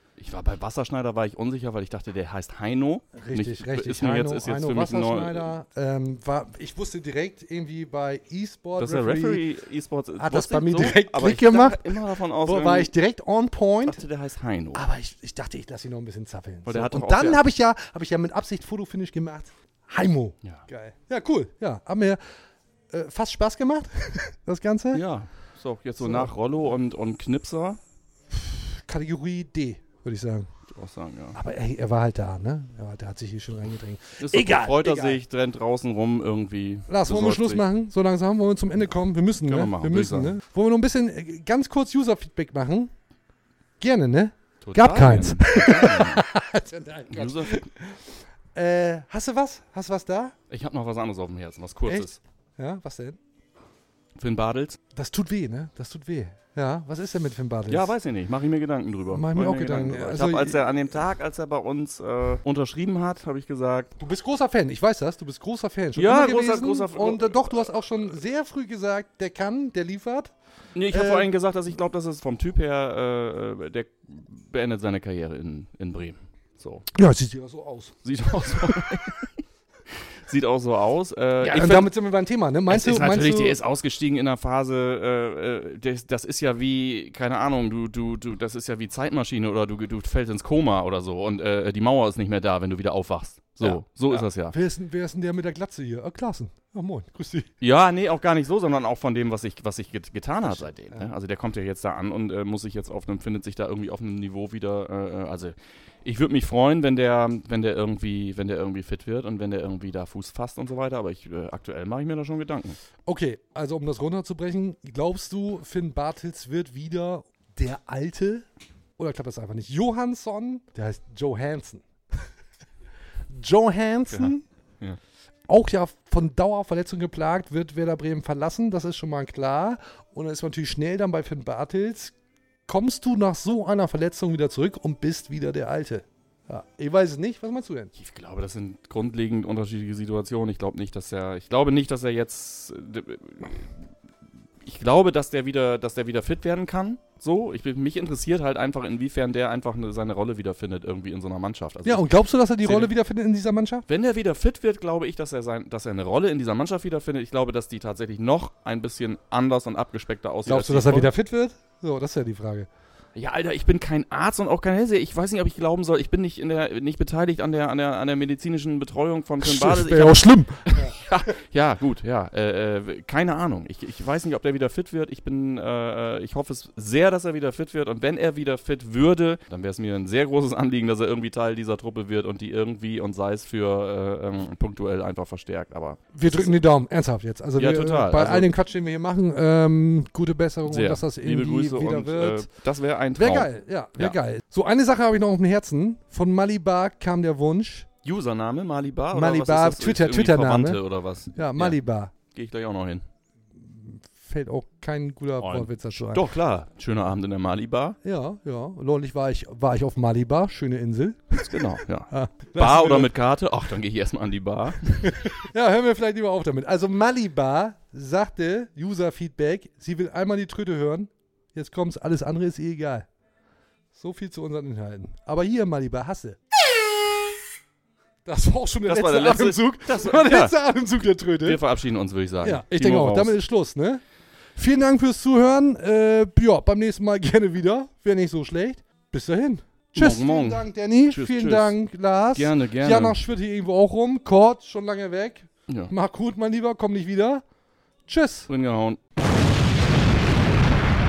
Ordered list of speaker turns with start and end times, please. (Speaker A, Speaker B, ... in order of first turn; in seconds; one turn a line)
Speaker A: 0.2-5.5
Speaker B: 3.1-9.4
Speaker A: 8.8-12.9
Speaker B: 10.2-14.0
Speaker A: 13.8-14.8
Speaker B: 14.7-22.2
Speaker A: 16.6-17.4
Speaker B: 22.9-25.0
Speaker A: 24.9-27.8
Speaker B: 26.0-26.3
Speaker B: 28.3-30.5
Speaker A: 30.7-31.4
Speaker B: 31.3-35.2
Speaker A: 34.2-37.6
Speaker B: 36.9-42.9
Speaker A: 39.4-40.3
Speaker B: 43.8-48.0
Speaker A: 44.6-46.2
Speaker A: 47.1-47.6
Speaker B: 48.5-50.3
Speaker A: 50.5-52.2
Speaker B: 51.9-53.2
Speaker A: 54.2-54.8
Speaker B: 55.0-57.9
Speaker A: 57.7-63.9
Speaker B: 59.1-60.6
Speaker B: 64.0-70.3
Speaker A: 66.0-67.7
Speaker A: 70.7-76.9
Speaker B: 70.9-71.3
Speaker B: 76.9-77.9
Speaker A: 78.0-79.3
Speaker A: 80.2-81.9
Speaker B: 81.4-83.6
Speaker A: 82.7-94.5
Speaker B: 93.6-97.5
Speaker A: 97.6-112.8
Speaker B: 100.4-101.1
Speaker B: 113.0-118.5
Speaker B: 119.0-121.8
Speaker B: 123.3-124.4
Speaker A: 124.1-125.0
Speaker B: 125.5-132.1
Speaker B: 132.7-137.9
Speaker A: 137.9-143.7
Speaker A: 144.6-152.9
Speaker B: 151.8-153.8
Speaker A: 153.9-161.1
Speaker B: 160.4-162.7
Speaker A: 163.1-186.6
Speaker B: 169.4-170.9
Speaker B: 186.1-192.5
Speaker A: 187.6-188.5
Speaker A: 190.7-194.2
Speaker B: 193.2-197.9
Speaker A: 198.0-201.8
Speaker B: 199.1-200.8
Speaker B: 201.3-202.1
Speaker A: 202.3-203.0
Speaker B: 203.6-206.3
Speaker A: 205.4-208.0
Speaker B: 208.0-211.5
Speaker A: 211.4-215.2
Speaker B: 212.1-213.1
Speaker B: 215.4-223.1
Speaker B: 223.9-226.4
Speaker B: 228.2-231.6
Speaker A: 228.9-230.6
Speaker A: 231.4-233.3
Speaker B: 232.4-234.0
Speaker B: 234.6-247.4
Speaker A: 239.9-241.8
Speaker A: 242.3-243.2
Speaker B: 248.1-248.5
Speaker A: 248.5-249.0